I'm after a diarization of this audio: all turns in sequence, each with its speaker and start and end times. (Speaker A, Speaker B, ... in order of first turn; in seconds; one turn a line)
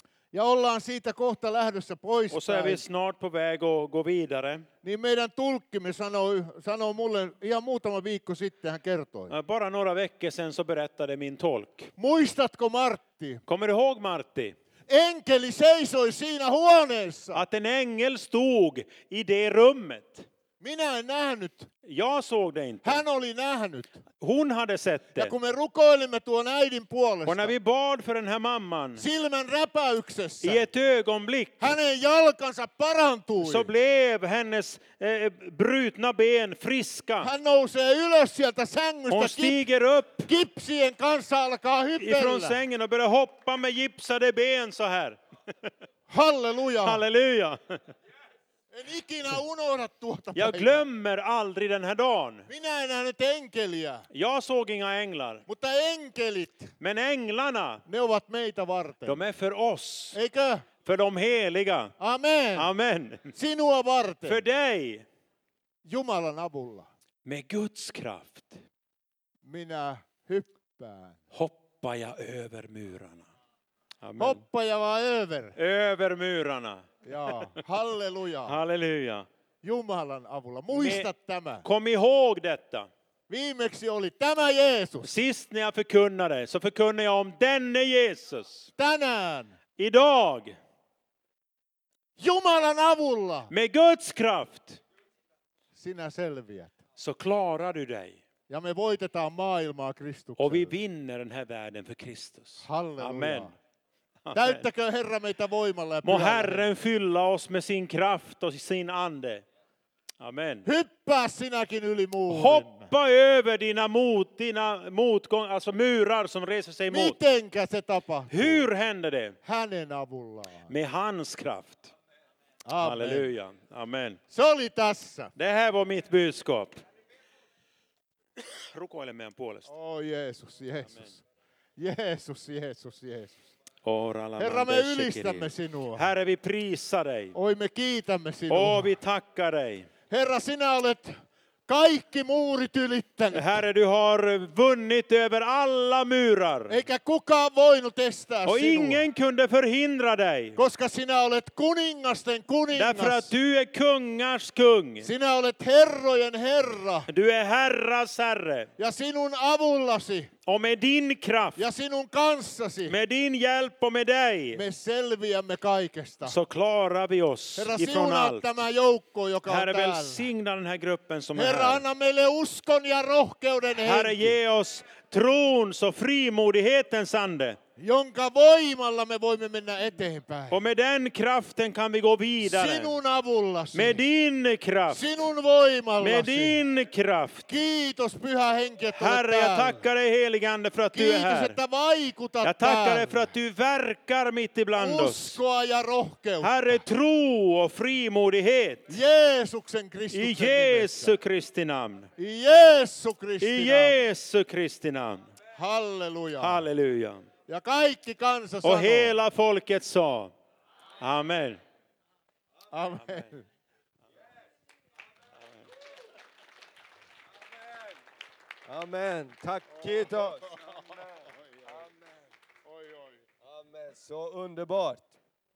Speaker A: 0.3-2.8
Speaker B: 2.3-4.7
Speaker A: 4.8-9.3
Speaker B: 9.3-11.9
Speaker A: 12.0-13.4
Speaker B: 13.5-14.6
Speaker A: 14.9-17.4
Speaker B: 17.3-20.3
Speaker A: 20.6-21.7
Speaker B: 21.8-23.0
Speaker A: 22.8-24.0
Speaker B: 24.2-25.3
Speaker A: 25.2-27.6
Speaker B: 27.3-29.0
Speaker A: 29.0-30.6
Speaker B: 30.4-31.7
Speaker A: 31.6-33.7
Speaker B: 33.4-37.3
Speaker A: 37.2-39.6
Speaker B: 39.1-40.3
Speaker A: 40.3-42.6
Speaker B: 42.0-45.2
Speaker A: 46.1-47.0
Speaker B: 46.8-47.8
Speaker A: 48.7-50.9
Speaker B: 50.4-52.5
Speaker A: 52.5-54.1
Speaker B: 54.1-55.5
Speaker A: 55.5-56.7
Speaker B: 56.8-57.8
Speaker A: 57.9-59.2
Speaker B: 59.1-60.2
Speaker A: 60.1-60.7
Speaker B: 60.9-61.9
Speaker A: 62.0-62.7
Speaker B: 62.6-63.3
Speaker A: 63.3-64.4
Speaker B: 64.3-65.1
Speaker A: 65.8-66.9
Speaker B: 67.2-68.6
Speaker A: 69.4-71.2
Speaker B: 71.3-73.3
Speaker B: 74.0-74.4
Speaker A: 74.2-75.5
Speaker B: 75.6-77.3
Speaker A: 77.0-78.6
Speaker B: 78.5-79.3
Speaker A: 79.6-81.6
Speaker B: 80.7-81.1
Speaker B: 81.6-82.9
Speaker A: 83.3-85.2
Speaker B: 85.0-88.7
Speaker A: 88.8-89.6
Speaker B: 89.8-90.6
Speaker A: 92.2-93.5
Speaker B: 93.5-94.8
Speaker A: 95.7-96.8
Speaker B: 97.0-98.2
Speaker A: 98.5-100.7
Speaker B: 100.4-103.5
Speaker A: 102.6-103.5
Speaker B: 104.3-104.6
Speaker A: 104.3-106.7
Speaker B: 106.0-109.4
Speaker B: 110.2-110.7
Speaker A: 110.6-112.9
Speaker B: 112.3-117.2
Speaker A: 116.9-118.7
Speaker B: 118.3-119.4
Speaker A: 119.4-120.7
Speaker B: 120.7-121.9
Speaker A: 122.6-123.3
Speaker B: 122.8-124.2
Speaker A: 124.3-125.3
Speaker B: 125.4-126.8
Speaker B: 128.4-129.7
Speaker A: 129.7-131.2
Speaker A: 131.8-133.5
Speaker B: 133.8-137.3
Speaker A: 134.4-136.1
Speaker A: 137.3-138.9
Speaker B: 138.5-139.9
Speaker A: 140.1-141.1
Speaker A: 141.7-143.6
Speaker B: 143.3-146.8
Speaker A: 146.7-149.1
Speaker B: 148.4-150.6
Speaker A: 150.6-153.3
Speaker B: 152.7-155.1
Speaker A: 155.0-157.1
Speaker B: 157.1-158.7
Speaker A: 158.8-160.3
Speaker B: 160.4-161.6
Speaker A: 161.6-163.0
Speaker B: 162.9-164.6
Speaker A: 164.5-166.4
Speaker B: 166.2-168.5
Speaker A: 167.6-170.3
Speaker B: 169.4-171.8
Speaker A: 171.3-174.4
Speaker B: 173.8-177.6
Speaker A: 177.8-180.6
Speaker B: 180.5-182.9
Speaker A: 182.4-184.0
Speaker B: 183.7-185.2
Speaker A: 184.9-186.6
Speaker B: 186.0-187.5
Speaker A: 187.5-189.8
Speaker B: 188.9-191.6
Speaker A: 190.9-193.3
Speaker B: 192.4-195.4
Speaker A: 194.7-196.8
Speaker B: 196.4-199.0
Speaker A: 198.9-201.2
Speaker B: 200.1-202.1
Speaker A: 202.2-204.1
Speaker B: 203.4-205.3
Speaker A: 205.6-206.7
Speaker B: 206.4-207.3
Speaker A: 207.5-209.2
Speaker B: 208.6-210.3
Speaker B: 211.0-211.6
Speaker A: 212.7-213.4
Speaker C: 218.7-222.3
Speaker A: 219.8-221.0
Speaker A: 222.7-223.2
Speaker C: 223.4-225.1